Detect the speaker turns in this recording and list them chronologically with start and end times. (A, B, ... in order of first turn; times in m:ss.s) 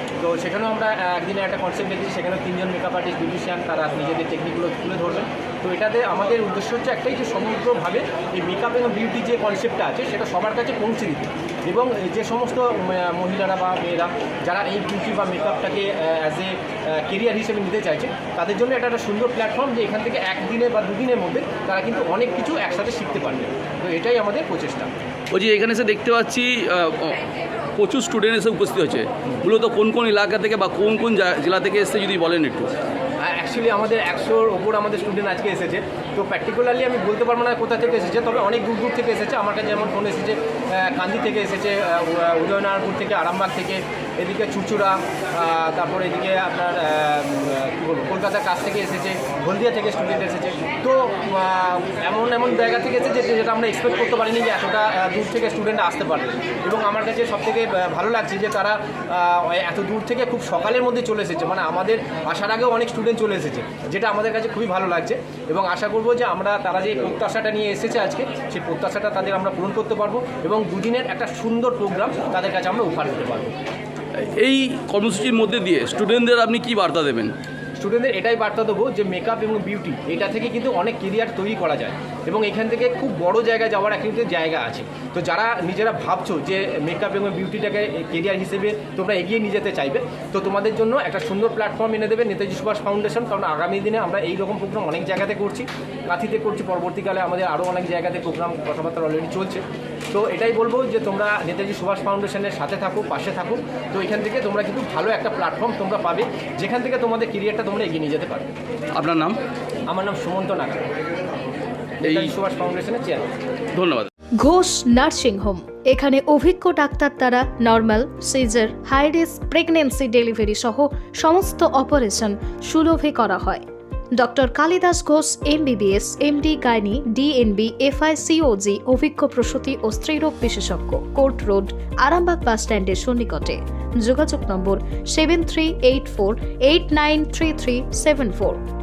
0:00.2-0:24.9 A
0:25.3-0:27.2 B
0:27.8-0:32.7 B
0:33.2-1:13.5 A
1:14.2-1:17.3 B
1:17.8-1:48.5 A
1:48.9-1:49.4 B
1:49.9-1:50.9 A
1:52.0-1:52.3 B
1:52.0-1:53.3 A
1:53.7-1:54.1 B
1:54.4-2:03.6 C
2:04.2-2:18.6 C